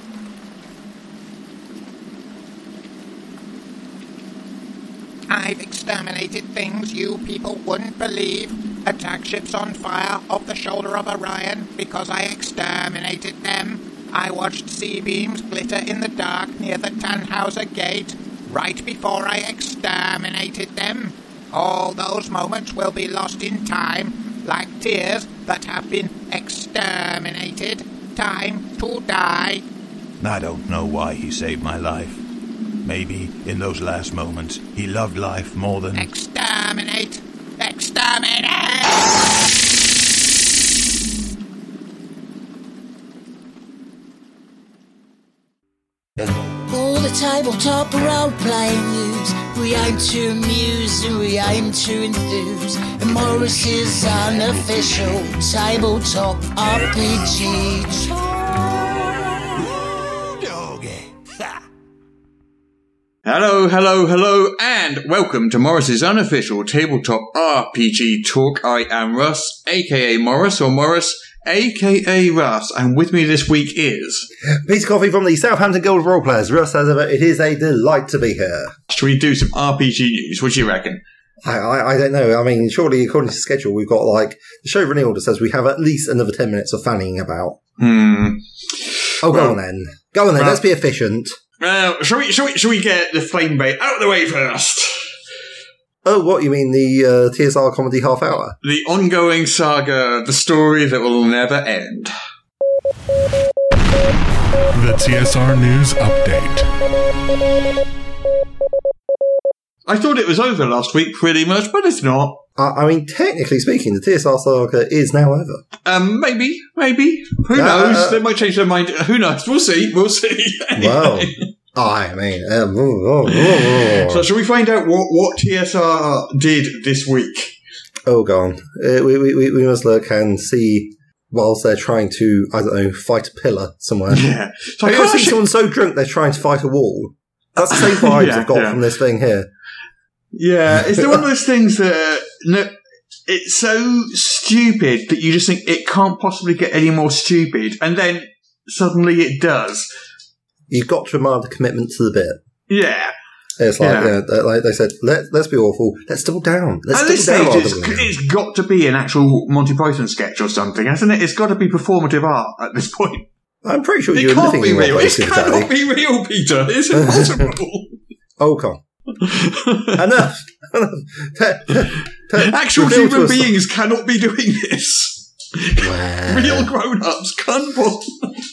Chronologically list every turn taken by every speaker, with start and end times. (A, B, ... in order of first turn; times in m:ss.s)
0:05.3-0:29.6 A
0:30.2-0:32.2 B
0:32.8-0:36.1 B
0:35.9-0:39.2 A
0:46.7-0:58.2 C
1:03.2-1:14.3 D
1:14.6-1:18.8 E
1:18.9-1:21.0 D
1:21.4-1:27.6 E
1:27.8-1:29.6 D
1:29.2-1:31.4 E
1:30.4-1:30.6 D
1:31.6-1:35.2 D
1:36.0-1:38.6 E
1:38.6-1:42.1 D
1:44.7-1:46.7 F
1:49.9-1:52.4 D
1:52.6-1:55.6 E
1:55.8-2:01.5 D
1:57.5-1:58.2 E
2:00.8-2:04.3 E
2:03.3-2:07.6 D
2:08.1-2:14.2 E
2:14.1-2:15.4 D
2:14.8-2:19.5 E
2:17.6-2:18.8 D
2:20.3-2:22.8 D
2:20.9-2:21.2 E
2:23.3-2:29.9 D
2:30.7-2:32.4 E
2:32.7-2:33.1 D
2:33.6-2:38.1 E
2:33.8-2:34.2 D
2:36.9-2:43.2 D
2:43.6-2:45.7 E
2:44.1-2:47.9 D
2:46.9-2:47.5 E
2:48.4-2:48.8 E
2:49.2-2:50.1 D
2:50.0-2:53.5 E
2:52.4-2:58.4 D
2:55.8-2:56.7 E